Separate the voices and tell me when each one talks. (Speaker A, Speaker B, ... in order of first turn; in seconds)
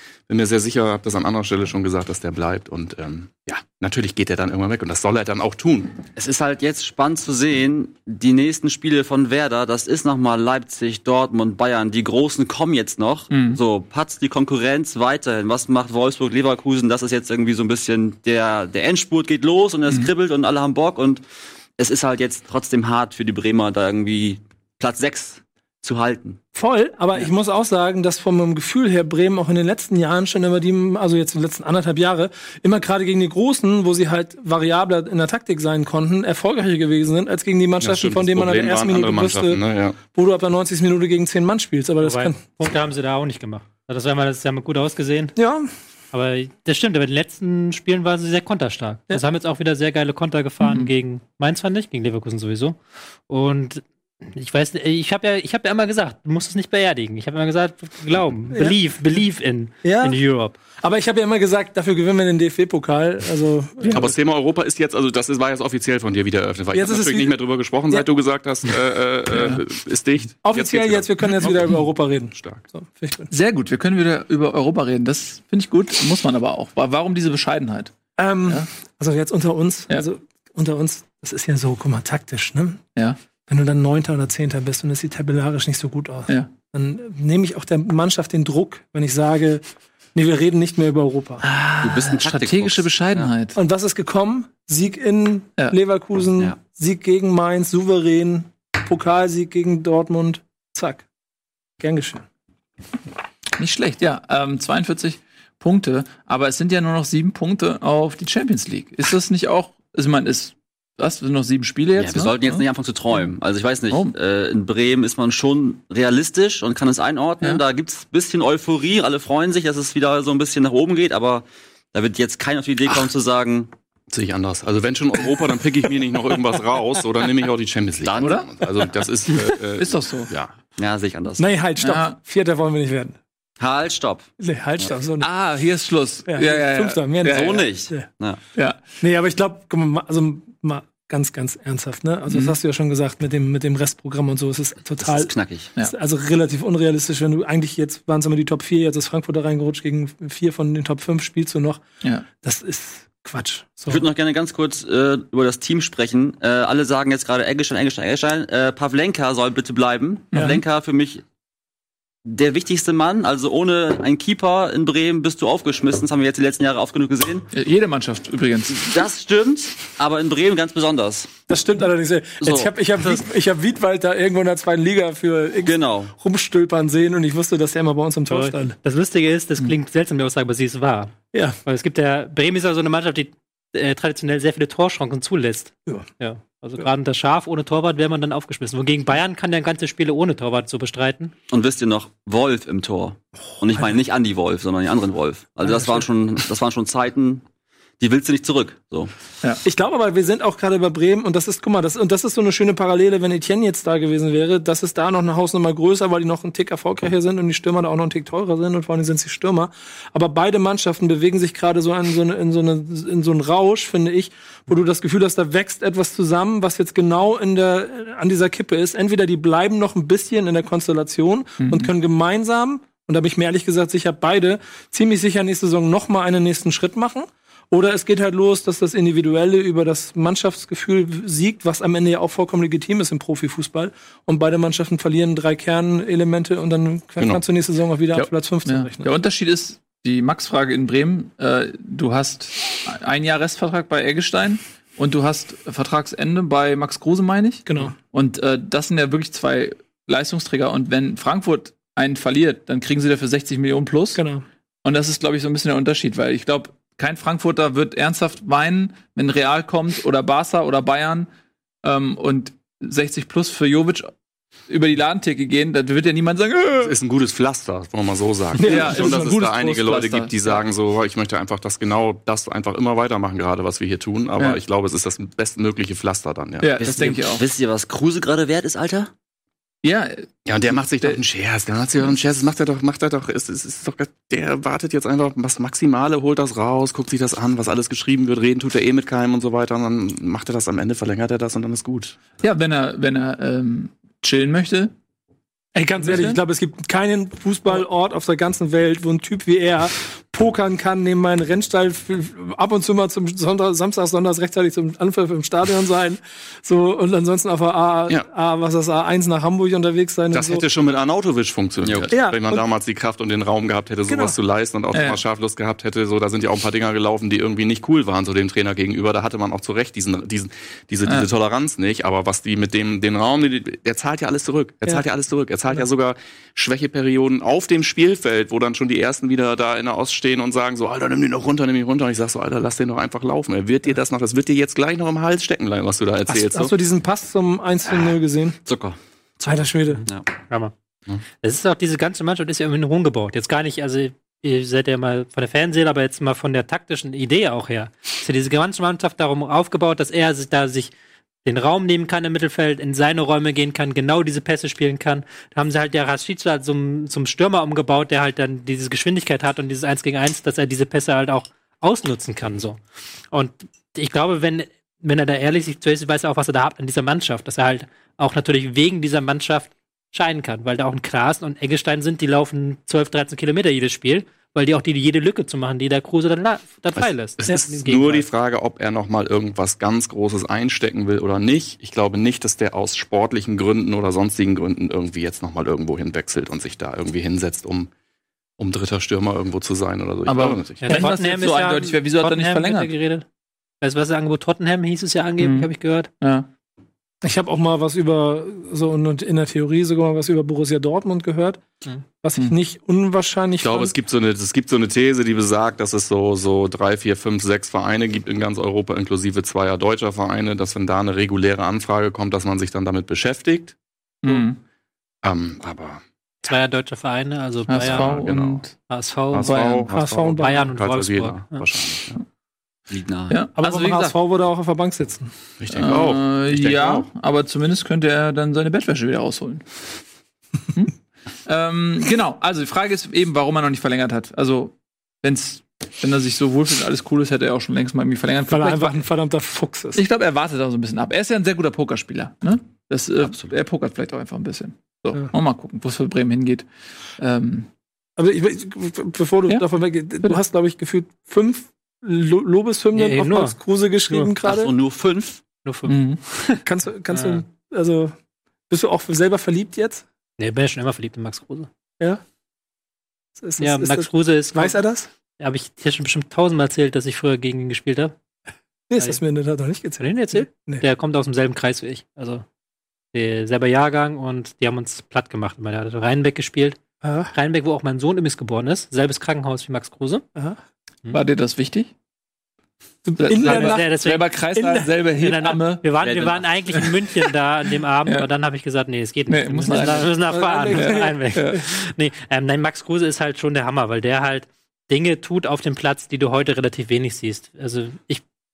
Speaker A: 0.3-6.0, 37.8-40.0, 63.9-71.8, 72.3-72.7, 124.1-130.5, 266.8-276.8, 280.5-292.2, 310.3-336.7, 377.0-387.9, 388.6-390.9, 403.6-413.8, 415.2-416.0, 417.8-418.7, 419.3-422.2, 425.6-427.1
Speaker B: 6.2-21.2, 21.8-26.4, 91.8-93.3, 112.0-123.7, 128.0-128.5, 130.8-131.4, 133.6-134.3, 137.2-138.4, 145.0-145.7, 153.9-161.2, 162.2-167.5, 168.7-171.3, 172.4-173.2, 175.6-176.1, 191.5-197.4, 198.0-199.1, 276.8-279.1, 311.8-312.1, 338.7-339.0, 422.9-423.4, 443.2-443.5, 454.4-455.4, 486.0-486.5
Speaker C: 13.3-13.6, 50.6-50.9, 69.3-69.6, 73.3-77.9, 91.4-93.6, 103.6-112.6, 128.2-128.5, 129.7-130.3, 131.8-132.2, 135.2-137.7, 142.3-142.6, 160.3-160.6, 167.5-168.9, 221.6-221.9, 238.1-254.2, 254.8-261.3, 261.8-264.1, 264.7-267.0, 268.6-270.6, 276.6-277.4, 279.8-280.3, 292.4-294.9, 296.0-296.4, 314.9-315.2, 321.1-321.3, 390.3-392.9, 395.4-396.5, 414.2-414.6, 417.7-418.7, 419.4-419.9, 423.3-424.1, 425.7-429.6, 431.5-439.1, 439.9-446.7, 447.2-447.7, 455.9-456.2, 481.1-481.9, 483.2-485.9, 489.3-490.2, 490.7-491.6
Speaker D: 26.6-42.5, 45.4-45.7, 58.5-58.8, 59.8-60.2, 60.7-64.1, 66.7-68.1, 70.4-73.3, 78.2-82.8, 83.5-89.6, 90.2-91.4, 93.5-101.0, 101.8-102.2, 131.4-133.2, 134.4-135.3, 136.3-138.1, 139.0-151.8, 152.4-154.0, 160.3-160.6, 171.5-178.8, 181.3-181.6, 199.6-239.1, 247.7-247.9, 254.2-254.4, 268.6-269.3, 295.8-310.6, 312.1-312.6, 314.1-314.4, 336.3-338.6, 339.4-340.0, 397.2-401.6, 402.2-403.9, 419.9-420.6, 423.6-425.3, 438.5-440.0, 448.2-454.7, 456.6-458.1, 458.7-460.0, 463.4-465.1, 468.9-470.8, 477.0-477.3, 483.1-484.0, 490.3-491.2
Speaker E: 42.0-45.4, 46.1-52.8, 53.3-60.6, 178.3-191.3, 340.0-340.7, 341.4-350.9, 351.4-362.8, 363.3-378.3, 390.8-393.2, 393.8-396.1, 416.4-419.7, 420.2-421.6, 452.9-453.6, 454.1-454.3, 455.6-457.4, 460.4-461.7, 463.6-464.8, 465.4-468.1, 470.0-472.4, 473.1-476.8, 477.3-480.2, 483.3-484.3, 485.2-498.2